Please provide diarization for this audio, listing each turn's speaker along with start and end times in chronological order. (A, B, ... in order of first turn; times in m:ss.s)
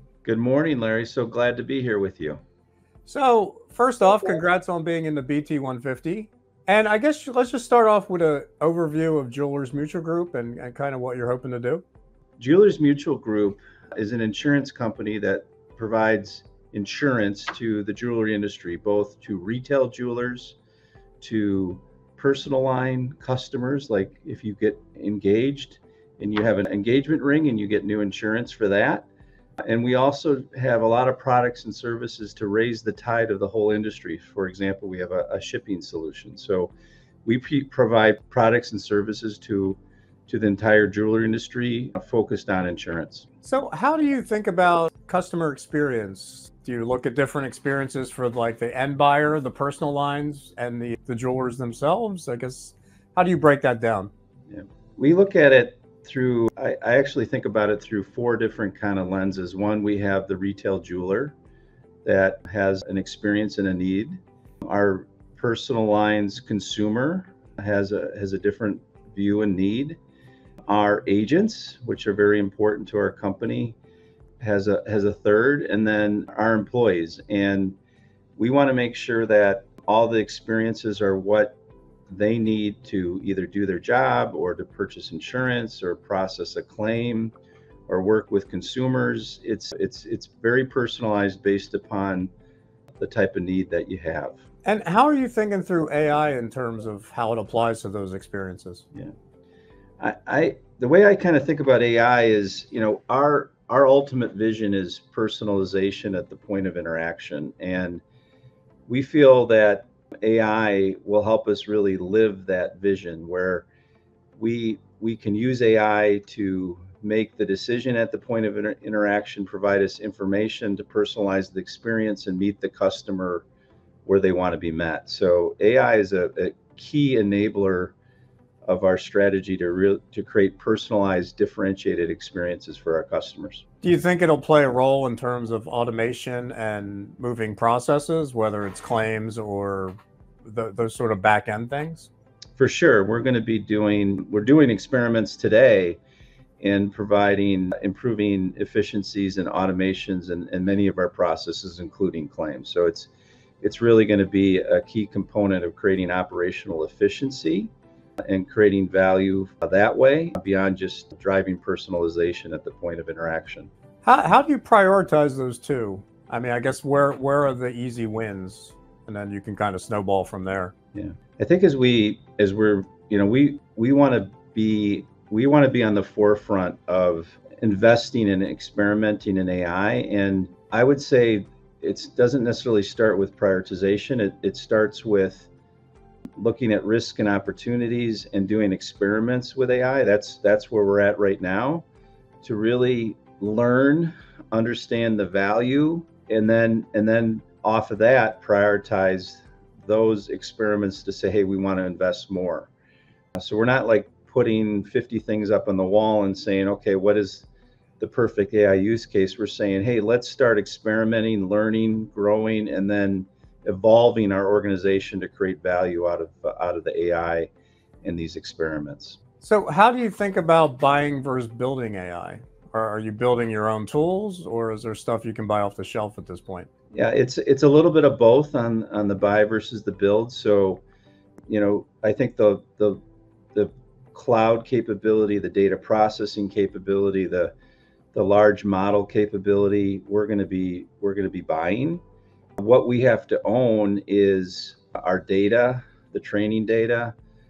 0:00.2-0:02.4 A
0:03.1-0:11.8 B
0:12.4-0:20.6 A
0:21.2-0:29.1 A
0:29.6-0:36.7 A
0:37.2-0:43.3 A
0:43.4-0:54.1 B
0:54.5-1:01.4 A
1:02.0-1:10.0 A
1:10.6-1:13.8 A
1:14.4-1:17.8 A
1:18.4-1:27.4 A
1:27.9-1:32.3 A
1:33.0-1:34.4 A
1:34.6-1:38.8 B
1:40.0-1:48.0 A
1:48.9-1:53.7 A
1:54.4-2:03.5 A
2:04.1-2:08.0 A
2:08.6-2:13.6 A
2:13.8-2:22.1 B
2:22.6-2:26.0 A
2:26.6-2:43.7 A
2:44.0-2:50.7 B
2:50.9-3:05.5 A
3:06.4-3:11.8 A
3:12.4-3:22.7 A
3:23.4-3:27.5 A
3:28.0-3:37.5 A
3:38.0-3:39.2 A
3:39.4-3:46.7 B
3:46.9-3:50.8 A
3:51.5-3:53.0 A
3:53.5-3:57.5 A
3:58.1-4:02.0 A
4:02.6-4:07.1 A